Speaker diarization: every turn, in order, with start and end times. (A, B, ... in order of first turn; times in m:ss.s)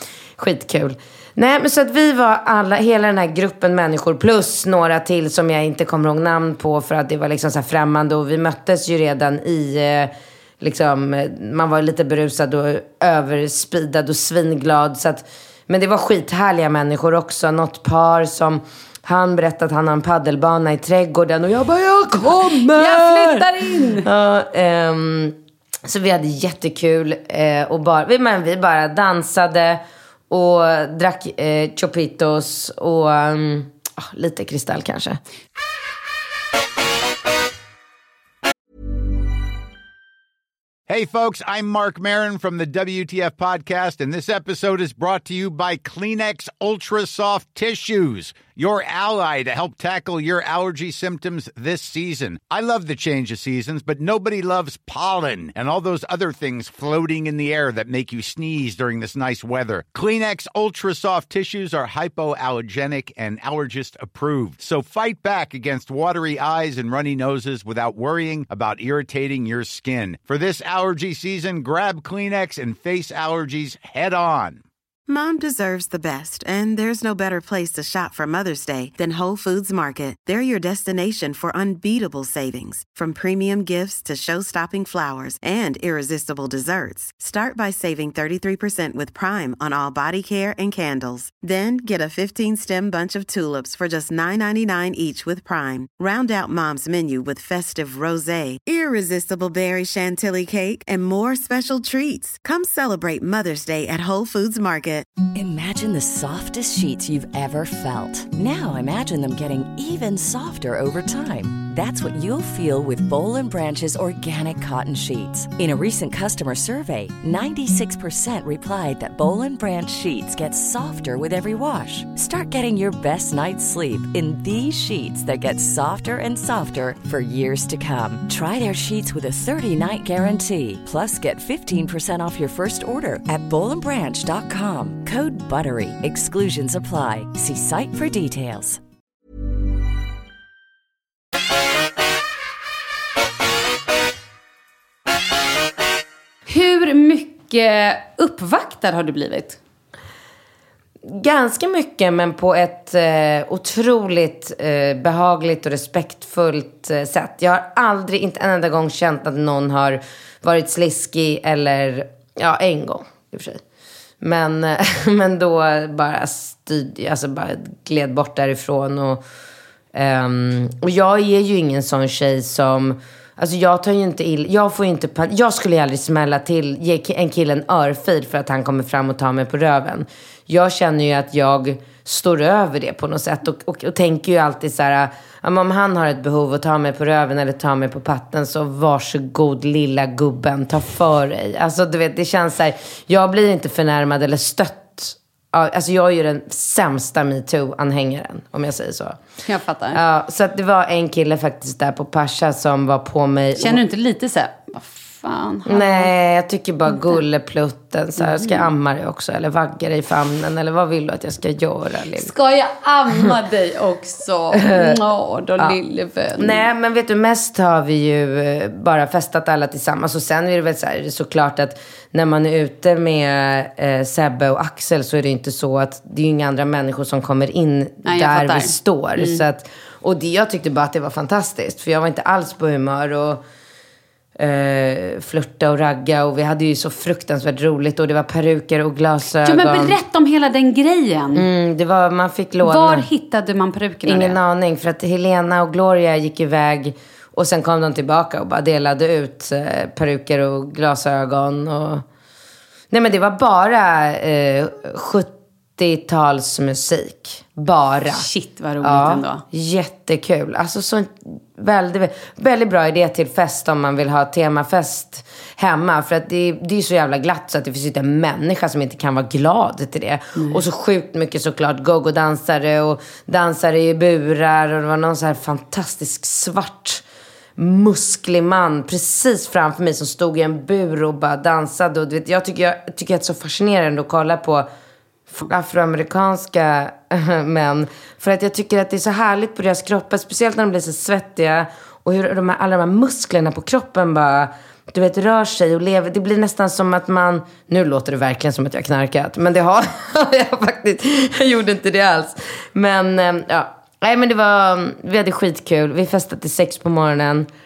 0:00.4-0:35.2 A
0:22.5-0:24.1 B
0:40.9-1:14.6 C
1:15.1-1:45.1 D
1:45.3-2:18.8 E
2:26.5-2:29.6 B
2:31.0-2:43.6 A
2:44.2-2:49.2 A
2:49.9-3:19.2 A
3:19.4-3:20.0 B
3:19.9-3:23.8 A
3:23.6-3:26.1 B
3:25.7-3:32.3 A
3:28.2-3:28.7 B
3:32.2-3:36.7 B
3:34.5-3:35.0 A
3:36.4-3:53.4 A
3:48.0-3:49.4 B
3:54.4-4:00.0 A
3:59.4-4:01.5 B
4:01.3-4:03.1 A
4:02.6-4:04.4 B
4:04.0-4:12.0 A
4:12.9-4:18.3 A
4:18.1-4:19.4 B
4:18.8-4:37.0 A
4:30.4-4:30.6 B
4:37.6-4:44.7 A
4:45.3-5:07.5 A